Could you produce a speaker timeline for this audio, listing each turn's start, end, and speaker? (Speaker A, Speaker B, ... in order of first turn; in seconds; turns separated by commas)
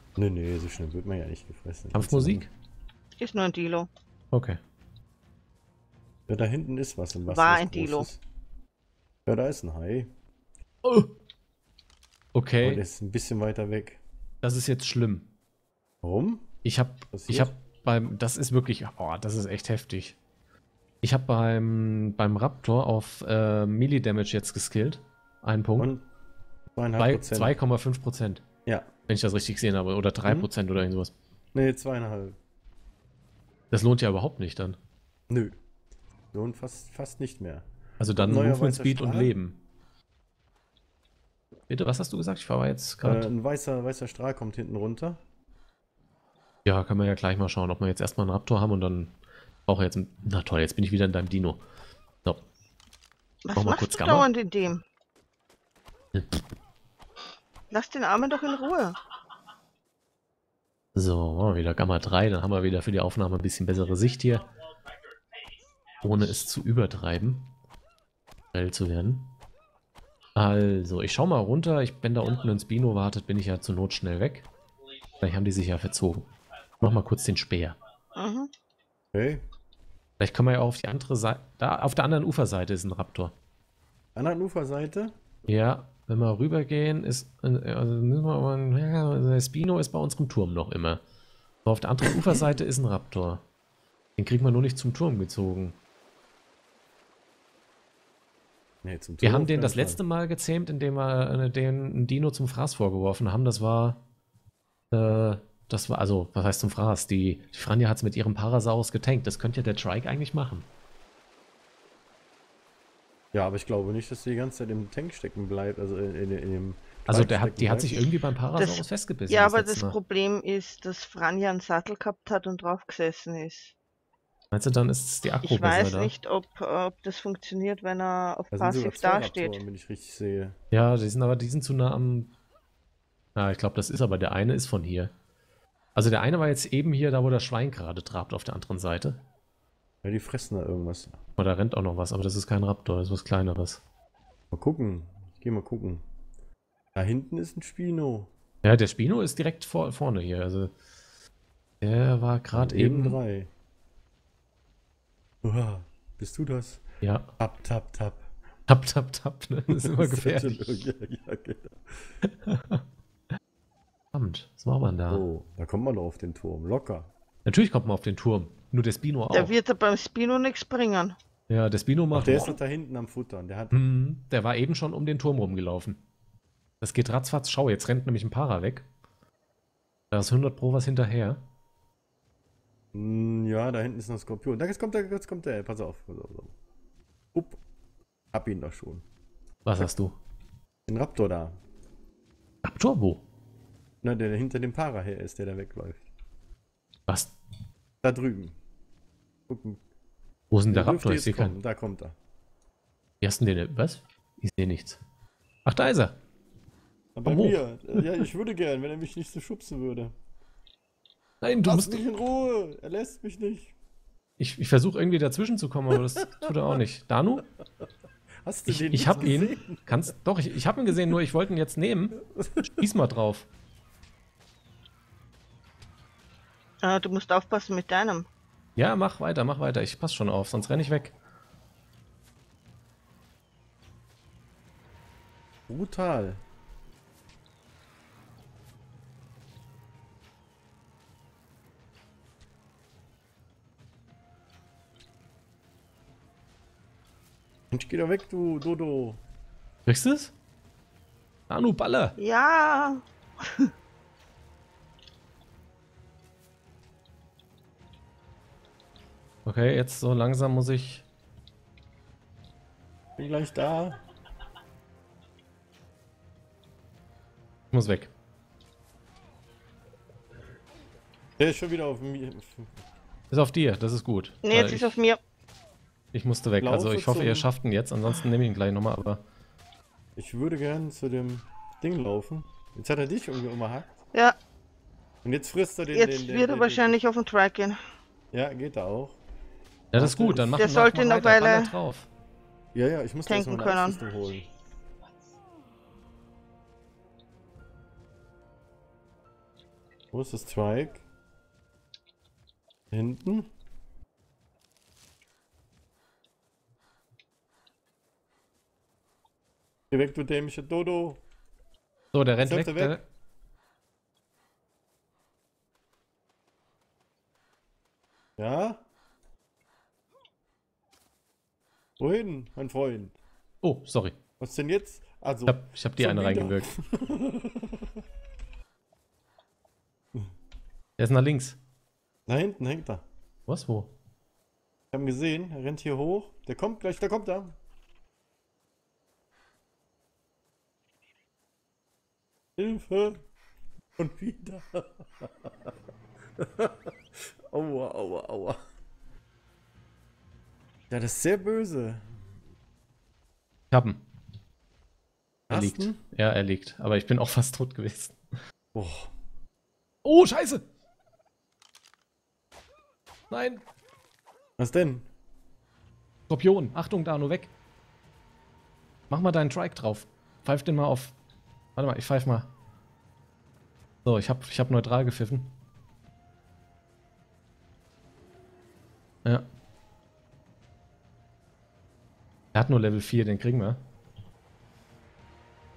Speaker A: 0.1-2.5, Speaker B: 1.9-2.5, Speaker C: 3.2-3.9, Speaker B: 4.3-4.6, Speaker A: 6.3-8.2, Speaker C: 7.3-8.1, Speaker A: 9.2-10.1, Speaker B: 10.8-11.1, Speaker B: 12.3-12.8, Speaker A: 12.6-14.0, Speaker B: 14.4-15.3, Speaker A: 16.0-16.5, Speaker B: 16.6-20.2, Speaker A: 17.1-17.5, Speaker B: 21.0-25.9, Speaker A: 25.8-26.0, Speaker A: 26.7-27.5, Speaker B: 27.0-28.4, Speaker A: 28.6-28.9, Speaker B: 29.1-31.1, Speaker A: 31.5-32.4, Speaker B: 33.7-34.8, Speaker A: 35.3-35.6, Speaker A: 36.3-39.3, Speaker B: 38.0-39.6, Speaker B: 41.7-43.3, Speaker A: 43.0-45.2, Speaker B: 46.6-49.1, Speaker B: 49.6-51.6, Speaker C: 53.4-54.8, Speaker B: 53.5-54.3, Speaker B: 56.1-56.4, Speaker C: 57.7-59.0, Speaker B: 60.9-64.5, Speaker B: 66.0-67.5, Speaker B: 68.5-69.3, Speaker B: 70.3-74.5, Speaker B: 75.2-77.8, Speaker C: 78.1-78.5, Speaker A: 79.1-79.4, Speaker B: 80.2-83.3, Speaker A: 84.1-85.2, Speaker B: 85.5-91.0, Speaker B: 91.6-93.4, Speaker B: 94.2-95.8, Speaker A: 98.8-100.0, Speaker B: 99.2-104.0, Speaker B: 104.9-110.7, Speaker A: 113.3-118.0, Speaker B: 117.1-120.0, Speaker C: 118.6-123.7, Speaker B: 124.5-126.1, Speaker C: 125.4-129.6, Speaker A: 128.5-130.6, Speaker B: 130.7-132.3, Speaker B: 133.3-135.1, Speaker B: 135.9-139.2, Speaker A: 140.0-141.2, Speaker B: 141.4-143.8, Speaker A: 144.5-146.0, Speaker A: 146.9-148.3, Speaker B: 148.6-150.7, Speaker B: 151.8-153.2, Speaker A: 152.5-153.5, Speaker A: 155.4-156.8, Speaker B: 157.0-157.3, Speaker A: 157.4-158.2, Speaker B: 158.7-160.8, Speaker A: 159.7-162.1, Speaker B: 162.2-162.8, Speaker B: 164.1-165.2, Speaker A: 165.1-167.1, Speaker B: 167.4-169.5, Speaker C: 169.3-171.2, Speaker B: 171.5-172.6, Speaker A: 172.1-173.8, Speaker B: 173.7-176.0, Speaker B: 176.8-178.8, Speaker B: 180.1-181.4, Speaker A: 182.9-186.5, Speaker A: 187.3-187.6, Speaker A: 188.3-189.0, Speaker B: 189.6-190.2, Speaker A: 190.9-191.6, Speaker B: 192.6-193.2, Speaker A: 194.0-196.1, Speaker B: 197.1-197.3, Speaker A: 198.0-198.6, Speaker A: 199.5-199.8, Speaker B: 200.5-201.5, Speaker A: 200.7-202.1, Speaker B: 203.2-205.0, Speaker B: 205.6-206.2, Speaker A: 207.1-210.1, Speaker B: 207.2-208.2, Speaker B: 211.4-212.1, Speaker A: 211.6-213.7, Speaker B: 214.4-217.4, Speaker A: 215.9-216.5, Speaker A: 218.4-220.0, Speaker B: 218.7-223.5, Speaker A: 222.2-222.9, Speaker C: 226.8-228.3, Speaker B: 228.8-231.1, Speaker A: 235.7-236.4, Speaker A: 247.7-249.2, Speaker B: 249.8-250.3, Speaker B: 251.5-252.2, Speaker C: 252.2-253.7, Speaker B: 259.4-261.0, Speaker A: 263.2-264.0, Speaker B: 267.7-268.1, Speaker A: 271.4-272.7, Speaker B: 273.3-275.0, Speaker C: 274.4-275.2, Speaker B: 276.1-279.2, Speaker A: 276.6-277.5, Speaker A: 280.1-284.0, Speaker A: 285.2-287.0, Speaker C: 285.9-287.8, Speaker A: 288.3-289.2, Speaker B: 289.9-292.1, Speaker A: 289.9-290.7, Speaker C: 290.6-291.7, Speaker A: 292.7-294.5, Speaker C: 293.3-294.0, Speaker A: 300.1-301.0, Speaker A: 302.9-303.5, Speaker A: 309.9-311.2, Speaker B: 312.1-313.0, Speaker A: 312.4-313.0, Speaker A: 318.4-318.8, Speaker A: 322.0-323.1, Speaker B: 323.6-324.2, Speaker A: 324.4-328.0, Speaker B: 325.5-326.7, Speaker B: 331.0-331.6, Speaker A: 332.2-333.0, Speaker B: 333.5-333.9, Speaker A: 334.9-337.6, Speaker A: 342.6-343.2, Speaker A: 344.0-345.7, Speaker A: 346.4-348.6, Speaker A: 350.9-352.2, Speaker B: 353.7-354.0, Speaker A: 355.5-356.0, Speaker B: 355.5-358.1, Speaker A: 358.7-359.1, Speaker B: 360.0-360.6, Speaker B: 363.3-363.6, Speaker A: 364.6-365.1, Speaker B: 366.3-367.5, Speaker B: 369.1-371.1, Speaker B: 371.8-372.5, Speaker B: 374.0-375.5, Speaker B: 382.5-383.8